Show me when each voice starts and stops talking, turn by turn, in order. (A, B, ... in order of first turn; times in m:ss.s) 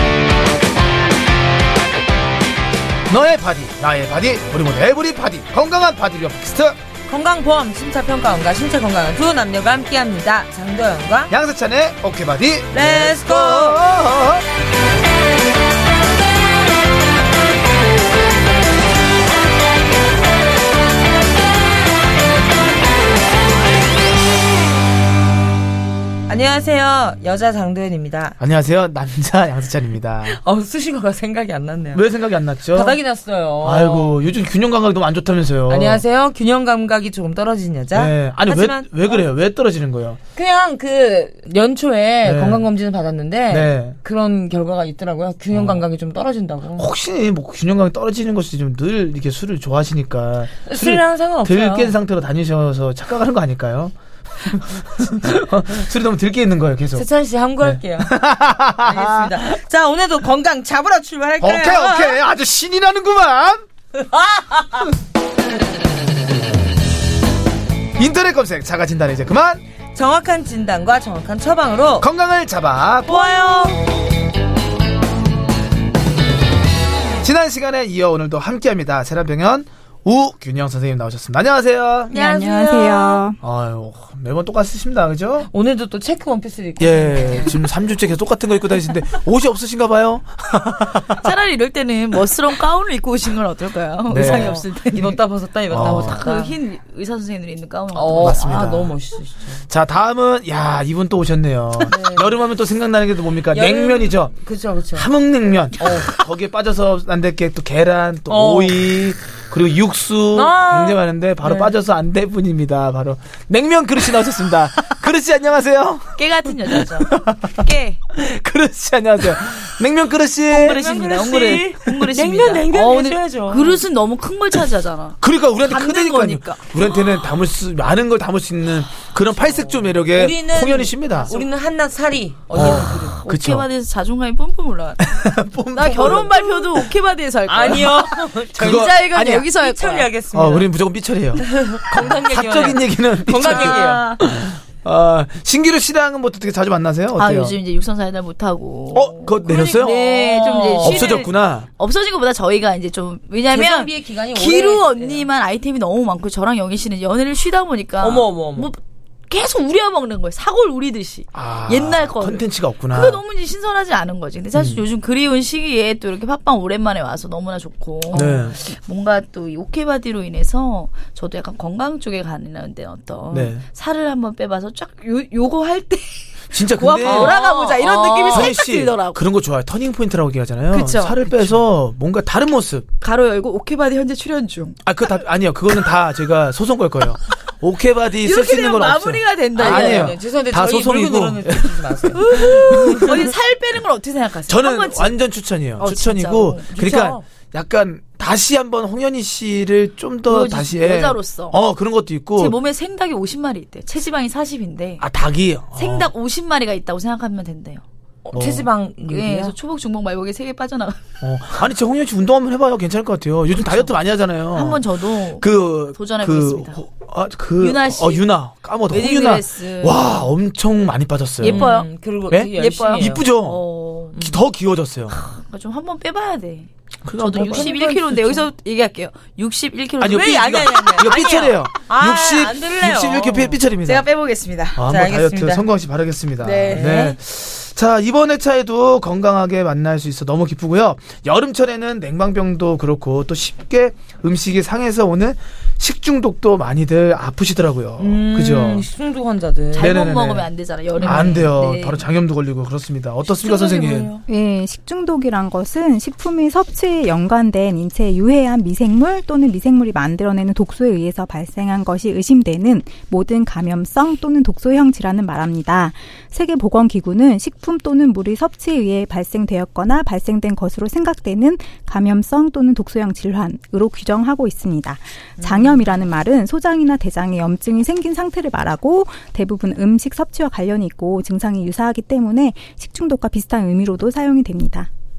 0:03.1-0:06.8 A
0:07.1-0:11.3 B
0:11.3-0:14.4 A
0:12.7-0:13.8 B
0:26.3-0:28.4 B
0:28.4-0:30.4 A
0:30.2-0:32.1 B
0:31.9-0:33.0 A
0:32.7-0:34.4 B
0:33.6-0:36.0 A
0:35.7-0:39.3 B
0:38.0-0:40.2 A
0:40.4-0:46.9 B
0:42.2-0:42.7 A
0:43.5-0:44.0 A
0:45.5-0:45.8 A
0:46.8-0:57.1 A
0:50.6-0:52.0 B
0:57.0-0:58.2 B
0:57.6-0:59.5 A
0:58.8-1:02.2 B
1:01.4-1:03.6 A
1:04.0-1:04.9 B
1:08.0-1:09.6 A
1:09.9-1:12.1 B
1:12.0-1:13.8 A
1:13.0-1:13.8 B
1:17.2-1:22.1 A
1:22.1-1:23.2 B
1:22.1-1:23.4 C
1:23.4-1:25.5 A
1:25.5-1:27.6 B
1:26.8-1:31.2 A
1:31.2-1:38.8 D
1:34.1-1:34.6 A
1:34.1-1:36.5 B
1:35.7-1:36.2 A
1:37.9-1:39.7 B
1:38.2-1:39.0 A
1:39.7-1:44.3 A
1:41.9-1:42.4 B
1:43.5-1:45.1 B
1:44.9-2:00.9 A
1:45.8-1:46.3 B
1:48.3-1:48.8 B
1:50.3-1:51.7 B
1:56.2-1:58.0 D
2:00.5-2:06.6 D
2:00.7-2:03.8 B
2:05.2-2:11.4 A
2:09.5-2:13.2 B
2:12.5-2:13.7 A
2:12.7-2:15.2 D
2:15.0-2:16.8 A
2:15.7-2:20.1 D
2:17.5-2:20.7 B
2:18.5-2:19.5 A
2:20.3-2:27.6 A
2:21.4-2:24.1 B
2:23.4-2:24.2 D
2:27.2-2:38.8 D
2:28.9-2:30.0 A
2:29.4-2:31.2 B
2:30.8-2:31.7 A
2:33.5-2:35.3 B
2:38.0-2:38.7 B
2:39.3-2:59.2 D
2:41.3-2:43.2 A
2:44.6-2:44.8 A
2:48.1-2:48.6 A
2:53.3-2:53.6 A
2:56.5-2:57.4 A
2:57.0-2:58.6 B
2:58.3-3:02.9 A
3:00.7-3:01.6 D
3:03.0-3:04.8 D
3:04.8-3:13.2 A
3:08.2-3:10.1 D
3:09.6-3:12.2 B
3:12.2-3:15.1 D
3:14.5-3:22.6 A
3:15.8-3:16.7 D
3:16.7-3:17.2 B
3:20.3-3:21.6 D
3:22.4-3:25.0 D
3:25.0-3:26.1 A
3:25.8-3:27.8 D
3:28.2-3:29.6 B
3:28.3-3:28.7 A
3:29.1-3:31.0 D
3:31.2-3:41.6 A
3:33.6-3:33.9 D
3:34.5-3:36.8 D
3:37.6-3:38.3 D
3:38.9-3:40.3 D
3:41.4-3:41.9 D
3:41.4-3:43.2 B
3:42.3-3:43.6 A
3:42.5-3:44.2 D
3:44.2-3:44.4 B
3:44.2-3:45.2 A
3:45.1-3:51.1 D
3:47.0-3:47.7 A
3:47.3-3:48.5 B
3:50.0-3:54.1 A
3:50.0-3:53.6 B
3:53.8-3:54.8 D
3:54.8-4:08.9 A
3:54.9-3:55.7 B
3:56.4-3:57.1 D
3:56.7-3:57.2 B
4:08.0-4:10.0 B
4:09.7-4:10.5 A
4:09.7-4:12.0 D
4:11.0-4:11.5 B
4:11.0-4:14.1 A
4:13.4-4:14.2 D
4:13.4-4:13.8 B
4:14.3-4:44.9 C
4:35.4-4:35.8 B